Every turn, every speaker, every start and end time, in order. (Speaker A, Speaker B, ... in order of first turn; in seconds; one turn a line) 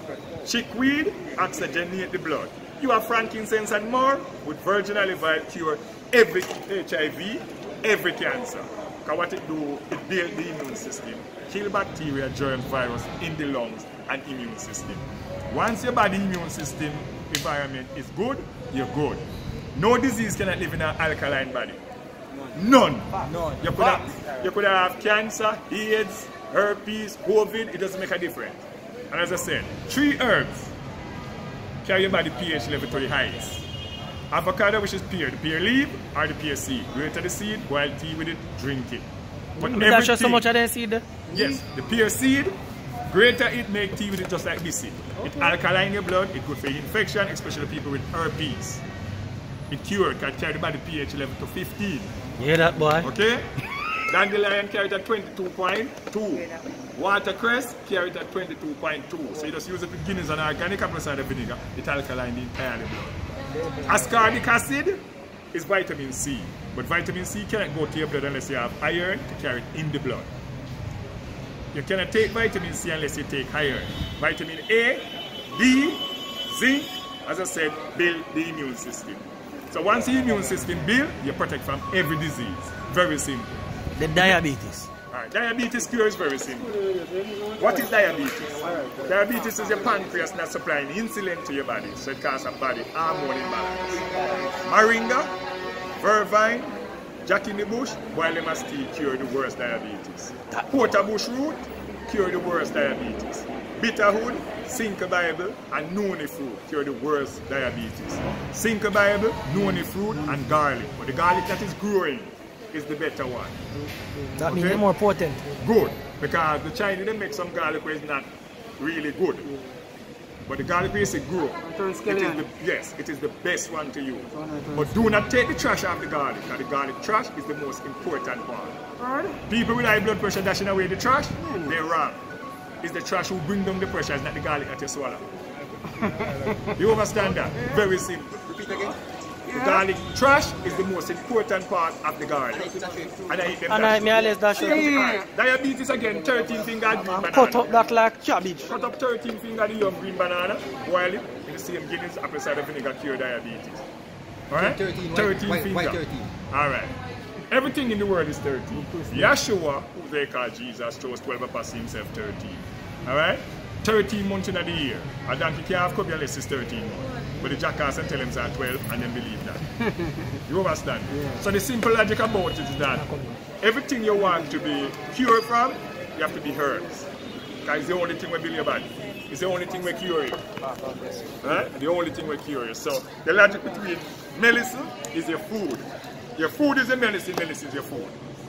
Speaker A: 0.4-21.8
Speaker A: 22.5-30.7
Speaker B: 23.2-24.2
Speaker A: 31.8-33.6
Speaker A: 34.3-39.1
Speaker C: 39.6-41.0
Speaker A: 39.6-40.4
Speaker A: 41.3-42.5
Speaker A: 43.1-48.8
Speaker A: 49.7-52.1
Speaker C: 52.4-53.1
Speaker A: 53.0-53.5
Speaker A: 54.1-63.2
Speaker A: 63.8-70.3
Speaker A: 71.7-83.5
Speaker C: 84.0-84.9
Speaker A: 84.1-84.4
Speaker A: 85.1-86.8
Speaker D: 86.8-87.5
Speaker A: 87.5-94.1
Speaker B: 94.1-94.4
Speaker A: 94.6-95.3
Speaker A: 96.0-113.6
Speaker C: 114.3-115.4
Speaker A: 114.4-114.8
Speaker A: 115.6-118.3
Speaker A: 118.8-119.5
Speaker A: 120.5-128.8
Speaker D: 121.7-122.4
Speaker D: 124.4-124.8
Speaker D: 129.0-129.4
Speaker A: 129.5-132.2
Speaker A: 132.8-135.2
Speaker A: 136.7-138.4
Speaker B: 138.4-139.0
Speaker A: 139.5-147.7
Speaker B: 142.6-143.6
Speaker C: 143.7-145.1
Speaker C: 147.0-148.6
Speaker D: 147.3-147.9
Speaker A: 148.6-153.8
Speaker A: 154.5-156.9
Speaker B: 154.6-156.3
Speaker A: 157.5-169.7
Speaker A: 170.3-173.1
Speaker A: 173.6-177.1
Speaker A: 177.6-180.4
Speaker B: 180.6-181.3
Speaker A: 181.4-188.2